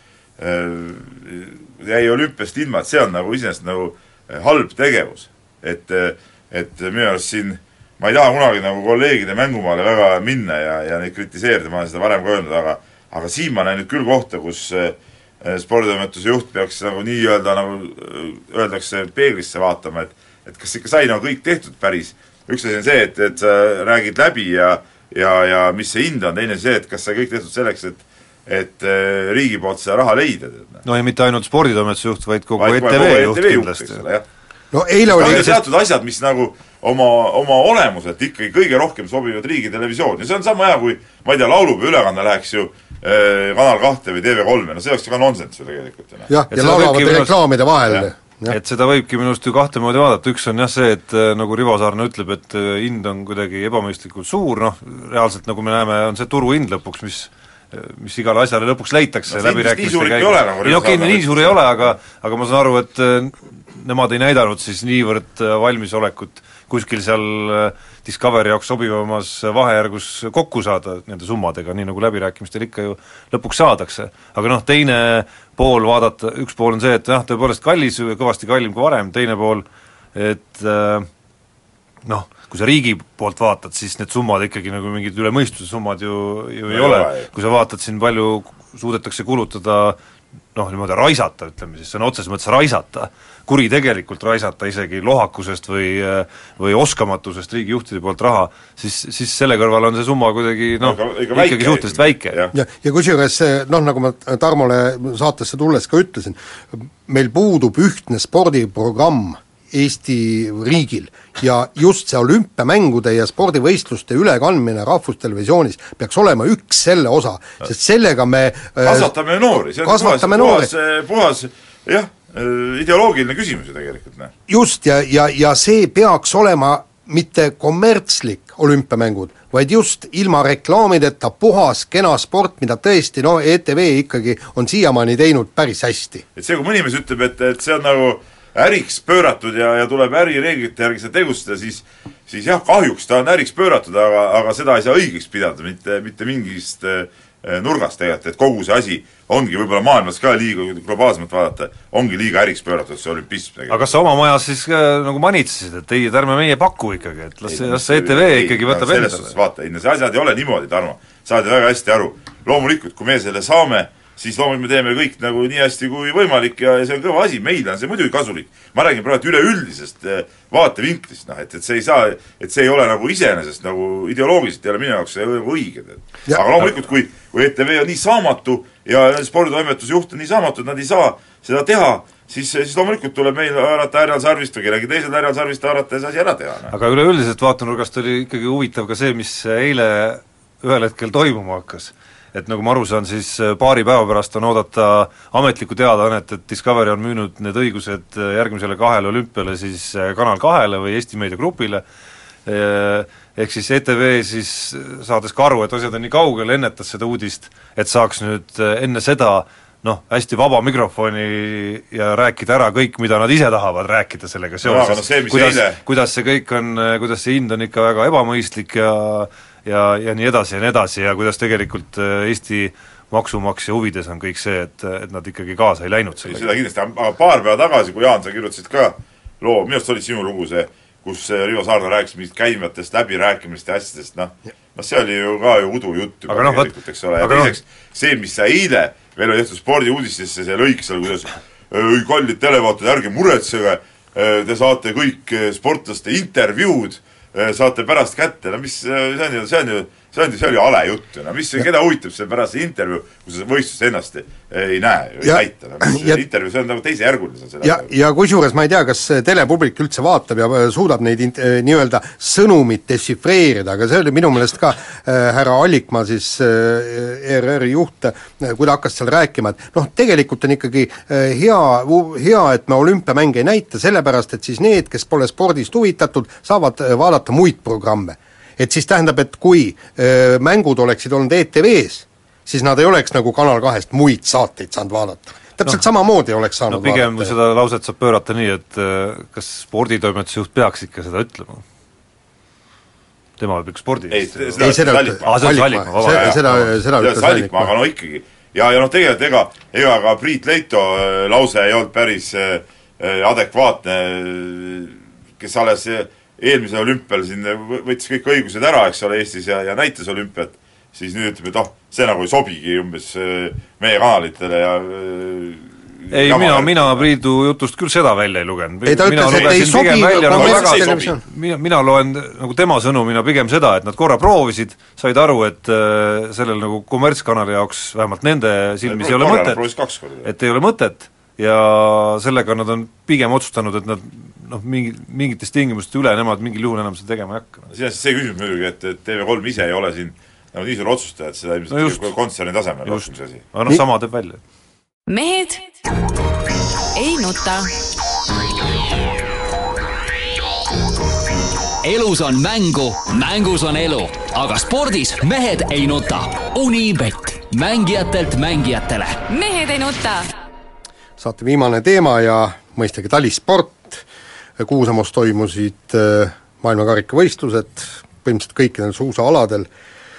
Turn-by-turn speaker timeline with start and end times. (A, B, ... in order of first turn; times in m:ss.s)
0:00.4-0:30.8 A
0:30.8-0:34.0 B
0:32.6-0:34.2 A
0:34.7-0:35.5 C
0:35.1-0:46.3 A
0:35.1-0:35.6 B
0:46.3-0:48.6 C
0:46.5-0:47.4 B
0:48.5-1:21.1 B
0:59.3-1:01.9 A
1:22.0-1:30.0 B
1:26.7-1:27.3 A
1:30.5-1:42.4 B
1:40.8-1:42.5 A
1:42.5-1:59.1 C
1:58.8-2:04.3 A
1:59.8-2:00.7 C
2:04.5-2:16.2 C
2:16.4-2:34.0 A
2:33.7-2:39.3 B
2:37.5-3:06.7 A
3:06.7-3:21.8 B
3:22.4-3:46.5 B
3:34.6-3:35.8 A
3:46.2-4:17.9 A
3:56.3-3:57.6 B
4:15.2-4:16.2 C
4:17.6-4:47.3 C
4:46.7-4:51.6 B
4:53.4-4:56.7 B
4:54.1-5:17.0 A
4:54.6-4:57.7 C
5:16.1-5:29.6 B
5:18.8-5:21.2 C
5:19.3-5:21.1 A
5:28.8-5:30.3 A
5:30.2-5:37.7 B
5:37.7-5:43.4 A
5:41.7-5:42.1 B
5:42.8-5:44.4 B
5:45.1-5:45.8 D
5:47.0-5:47.7 D
5:51.8-5:59.2 E
5:59.3-6:00.3 D
6:01.2-6:04.0 C
6:04.6-6:09.7 C